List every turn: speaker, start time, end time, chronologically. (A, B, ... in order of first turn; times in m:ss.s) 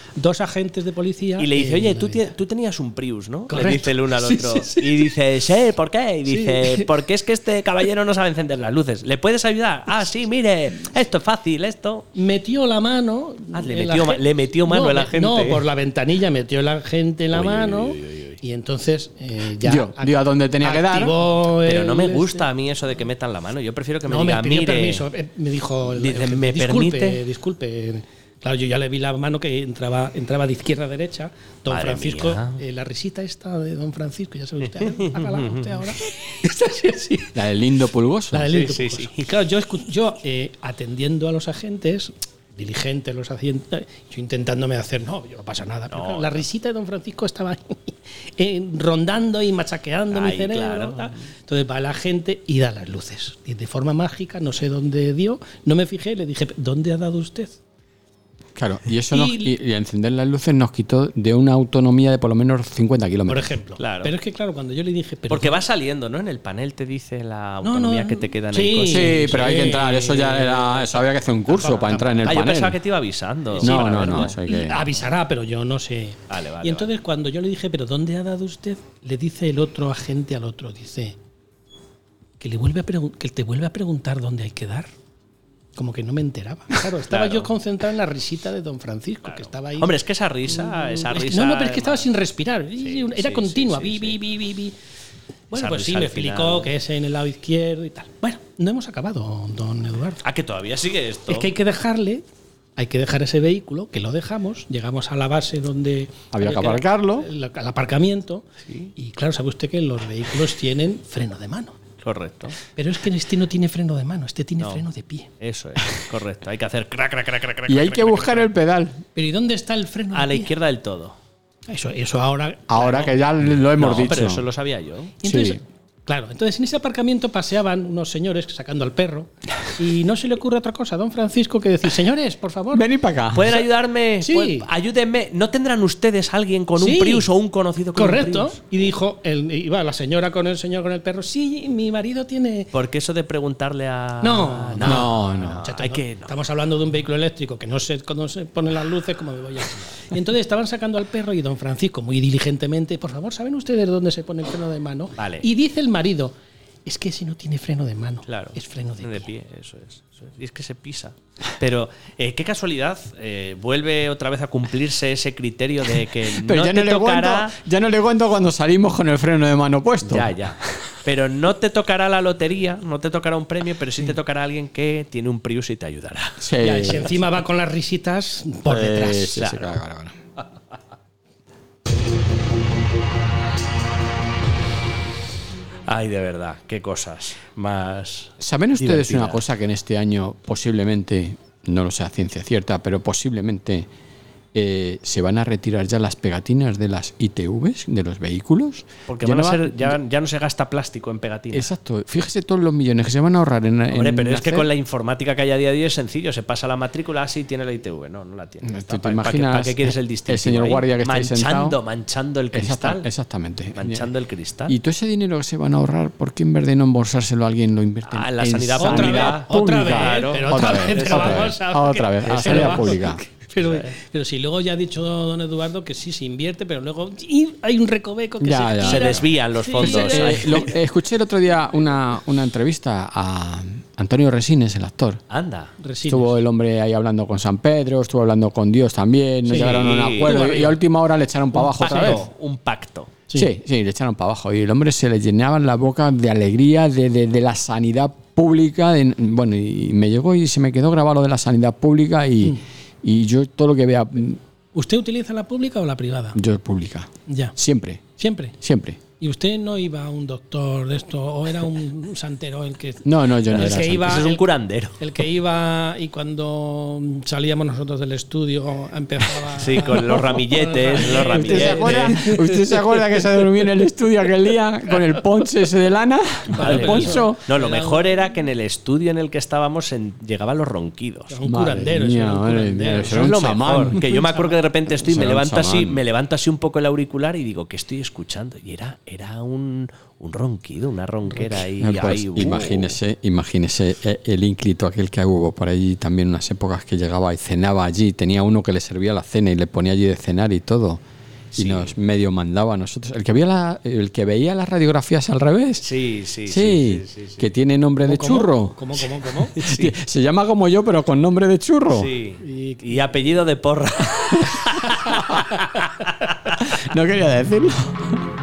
0:00.2-0:02.3 A
0:01.4-0:12.1 B
0:03.5-0:05.1 A
0:06.3-0:06.9 A
0:12.2-0:22.5 A
0:13.5-0:15.6 B
0:17.3-0:18.4 B
0:19.6-0:21.1 C
0:21.5-0:25.0 B
0:24.1-0:37.4 A
0:26.0-0:27.2 B
0:31.7-0:32.6 B
0:34.7-0:35.8 B
0:37.3-0:38.5 C
0:38.3-0:57.6 A
0:38.5-0:39.3 B
0:45.9-0:46.4 B
0:50.1-0:51.2 B
0:58.6-1:03.5 C
0:59.1-0:59.5 A
1:03.3-1:05.6 A
1:03.8-1:04.1 B
1:05.3-1:09.3 B
1:07.6-1:12.3 A
1:08.9-1:12.8 C
1:12.2-1:14.4 B
1:13.6-1:21.2 A
1:13.6-1:14.8 C
1:16.3-1:16.9 B
1:22.4-1:24.9 A
1:25.8-1:30.0 A
1:27.1-1:27.5 B
1:29.2-1:32.1 B
1:30.5-1:34.8 A
1:32.8-1:34.2 B
1:35.5-1:40.2 A
1:35.5-1:36.7 B
1:40.2-1:41.5 B
1:41.3-1:42.2 A
1:42.8-1:51.8 A
1:46.3-1:47.3 C
1:48.7-1:48.9 B
1:52.0-1:52.6 B
1:52.8-1:55.3 A
1:54.6-1:54.8 B
1:55.4-1:58.5 B
1:57.7-1:59.0 C
1:59.2-2:00.5 A
2:00.1-2:01.2 B
2:01.7-2:03.2 A
2:02.7-2:04.4 C
2:03.6-2:05.2 B
2:05.2-2:12.9 A
2:05.2-2:05.6 C
2:12.7-2:13.6 C
2:13.3-2:18.6 B
2:14.2-2:14.7 A
2:16.8-2:17.3 A
2:18.0-2:22.7 A
2:22.7-2:26.3 B
2:24.2-2:36.3 A
2:24.8-2:25.6 C
2:35.2-2:35.5 B
2:36.9-2:39.3 A
2:38.3-2:47.6 B
2:46.3-2:50.4 C
2:50.1-2:56.4 B
2:56.4-2:57.1 C
2:56.6-2:59.4 A
2:58.7-3:00.2 C
2:59.4-2:59.8 B
3:05.9-3:09.4 B
3:08.4-3:13.9 C
3:14.5-3:20.0 C
3:19.1-3:21.7 B
3:21.5-3:24.7 C
3:23.9-3:33.1 B
3:28.6-3:31.8 C
3:32.5-3:34.1 C
3:33.8-3:34.8 B
3:34.7-3:43.2 C
3:38.1-3:41.5 B
3:38.8-3:50.7 A
3:42.3-3:43.0 B
3:43.6-3:43.9 B
3:48.4-3:49.3 C
3:48.8-3:50.7 B
3:49.8-3:55.2 C
3:55.3-3:55.7 B
3:55.8-3:56.4 A
3:56.1-4:02.2 C
3:59.5-4:00.8 A
3:59.5-4:00.7 B
4:01.5-4:02.2 A
4:01.8-4:03.2 B
4:03.4-4:14.4 C
4:14.7-4:16.4 A
4:16.4-4:18.0 C
4:17.3-4:17.6 A
4:18.2-4:18.6 A
4:18.6-4:19.0 C
4:19.2-4:24.4 A
4:23.0-4:24.2 C
4:23.6-4:25.0 B
4:25.0-4:32.8 A
4:29.5-4:32.2 B
4:31.2-4:37.4 C
4:36.5-4:41.4 B
4:36.6-4:38.1 A
4:41.3-4:43.3 A
4:41.5-4:44.0 C
4:43.0-4:53.0 B
4:44.0-4:44.6 A
4:44.9-4:46.0 C
4:51.3-4:51.6 A
4:51.8-5:01.0 C
5:01.5-5:01.9 B
5:01.6-5:05.9 C
5:05.8-5:07.5 B
5:06.5-5:08.8 C
5:08.0-5:09.6 A
5:09.5-5:10.0 B
5:09.6-5:12.1 C
5:11.9-5:16.7 B
5:12.4-5:13.1 A
5:16.6-5:18.2 C